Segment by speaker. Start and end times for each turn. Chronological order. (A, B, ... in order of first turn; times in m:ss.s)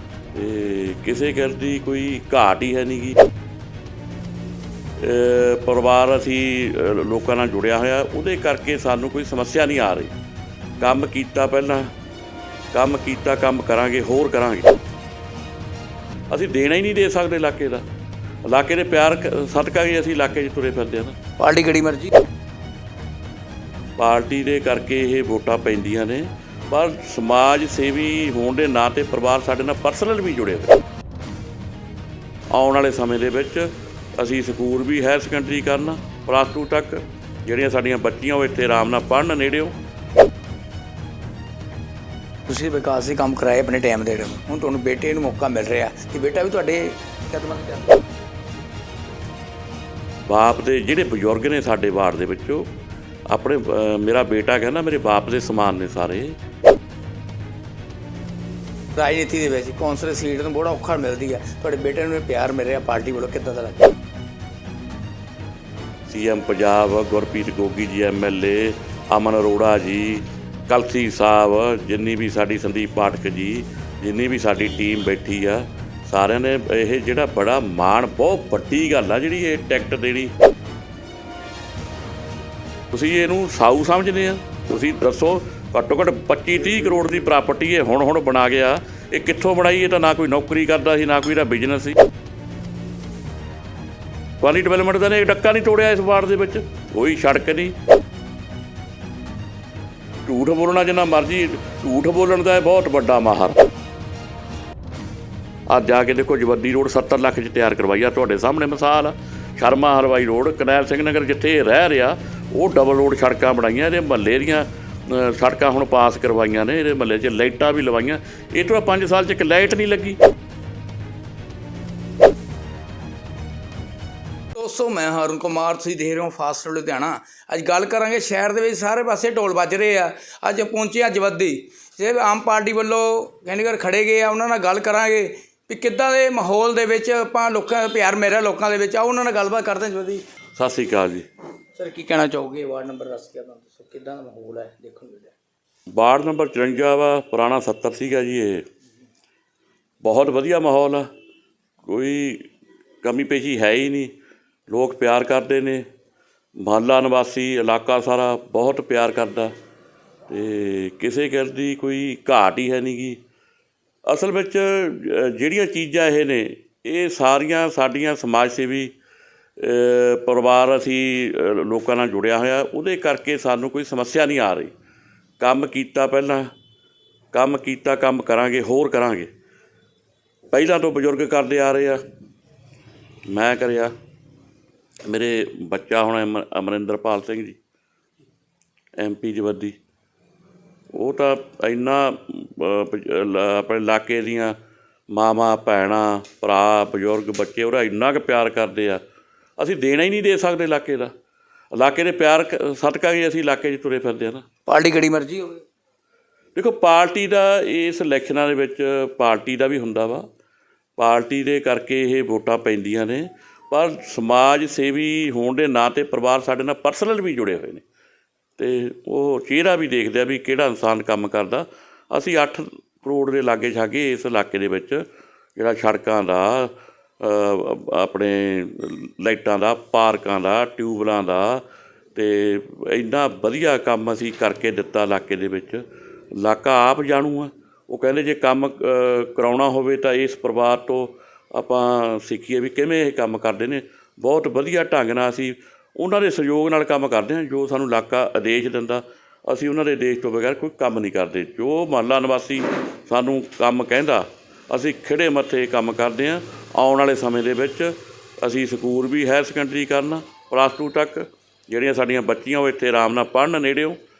0:00.3-0:03.2 A
0:05.0-0:10.1 A
0:10.8-0:11.9 A
0:12.7-0:14.8 A
0:16.3-0:17.8 A
0:18.4-0:21.1 A
0:21.4-0:22.2 B
0:24.0-0:30.8 A
0:32.5-0:39.7 A
0:42.5-0:48.0 B
0:50.3-0:52.7 A
0:53.3-0:56.4 A
0:59.0-1:03.9 B
1:06.1-1:20.3 A
1:22.9-1:32.0 A
1:34.4-1:37.7 A
1:40.2-1:43.6 A
1:45.7-2:00.2 A
2:04.5-2:20.2 B
2:20.6-2:21.2 A
2:21.7-2:25.3 B
2:25.9-2:28.6 A
2:30.0-2:31.1 A
2:31.8-2:32.5 A
2:33.0-2:34.1 A
2:34.7-2:35.8 A
2:36.6-2:39.5 A
2:40.3-2:43.2 A
2:44.0-2:48.9 A
2:49.6-2:54.7 A
2:55.4-2:56.5 A
2:57.3-2:59.3 A
3:00.5-3:02.0 A
3:03.3-3:03.9 A
3:05.0-3:07.6 A
3:09.0-3:09.8 A
3:10.9-3:14.6 A
3:15.1-3:19.0 A
3:19.6-3:21.1 A
3:21.7-3:24.4 A
3:24.7-3:25.6 B
3:26.5-3:30.3 A
3:31.0-3:37.8 A
3:38.6-3:45.0 A
3:45.6-3:51.6 A
3:52.1-4:24.0 A